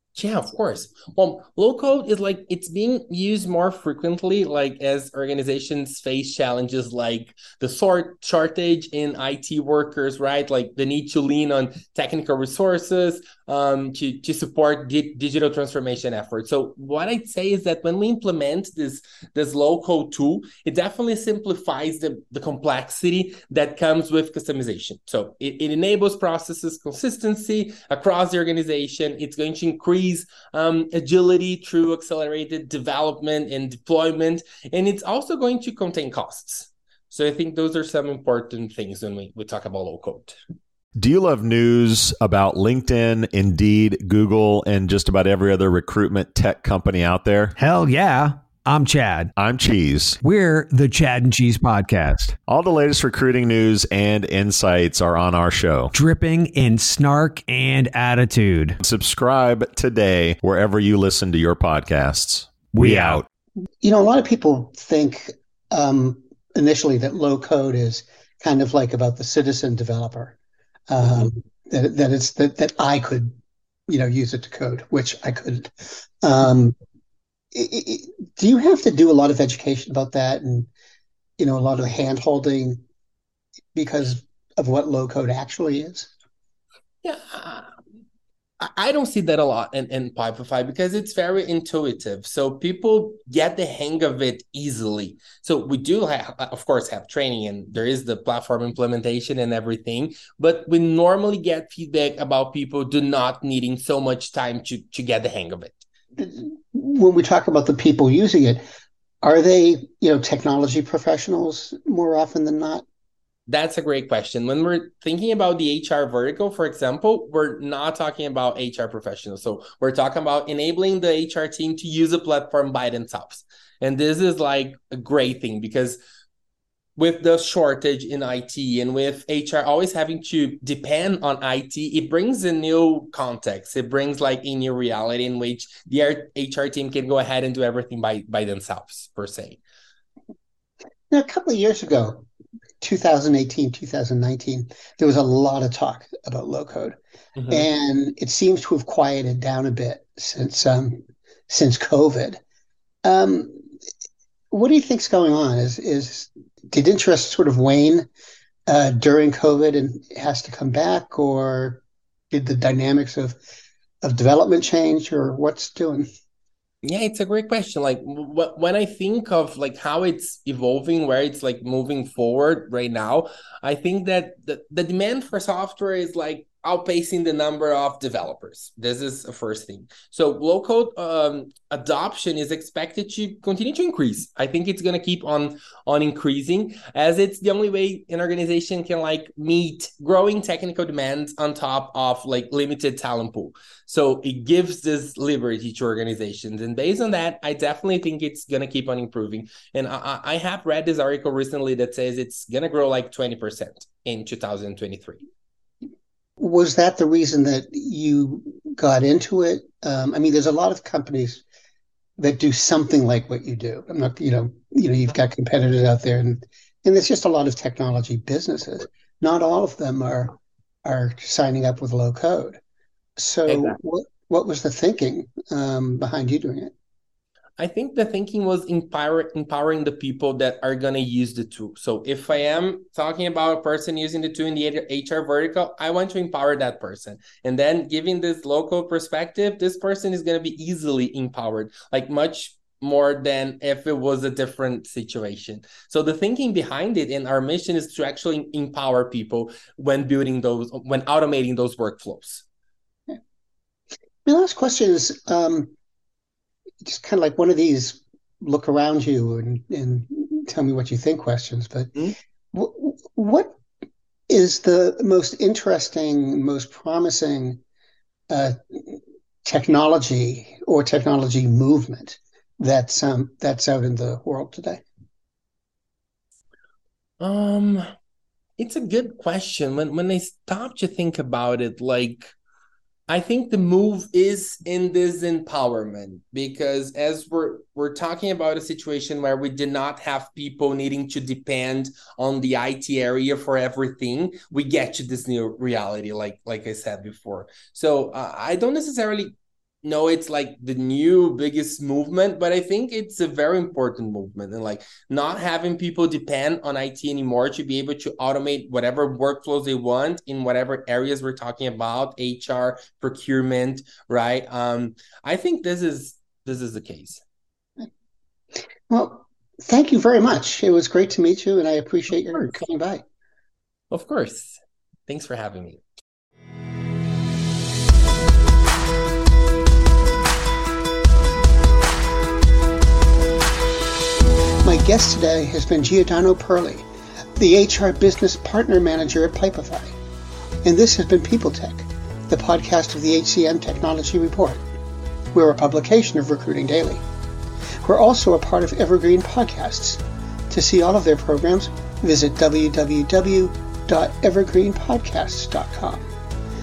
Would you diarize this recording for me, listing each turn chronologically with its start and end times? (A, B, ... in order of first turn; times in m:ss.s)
0:00.2-0:40.4 A
0:41.0-0:47.6 B
0:47.6-0:49.2 C
0:49.4-0:50.2 B
0:50.3-0:52.2 C
0:52.4-0:56.0 B
0:56.0-0:58.7 C
0:58.8-1:03.2 B
1:02.8-1:03.2 C
1:03.8-1:10.4 D
1:10.9-1:13.3 D
1:13.9-1:15.7 D
1:16.2-1:16.8 D
1:17.5-1:20.7 D
1:21.4-1:22.8 D
1:23.7-1:26.1 D
1:27.0-1:27.7 A
1:28.6-1:45.8 A
1:46.2-1:48.6 D
1:49.2-1:52.8 D
1:53.5-2:06.0 A
2:07.0-2:19.6 A
2:21.1-2:22.3 D
2:22.8-2:27.0 D
2:27.4-2:27.7 A
2:27.5-2:32.4 D
2:33.0-2:33.7 D
2:34.5-2:38.1 D
2:38.7-2:43.4 D
2:44.0-2:46.1 D
2:46.8-3:25.2 A
3:26.4-3:31.4 D
3:32.2-3:42.6 D
3:43.2-3:46.7 D
3:47.6-4:12.4 A
4:14.3-4:15.7 D
4:16.8-4:23.6 D
4:24.3-4:27.6 D
4:28.3-4:34.8 D
4:37.2-4:37.8 A
4:38.6-4:42.3 A
4:43.1-4:59.3 A
4:59.8-5:17.2 A
5:18.9-5:23.0 D
5:22.3-5:22.6 A
5:23.9-5:25.8 A
5:34.6-5:40.0 D
5:40.6-5:44.6 D
5:45.3-5:47.0 D
5:47.8-5:56.1 D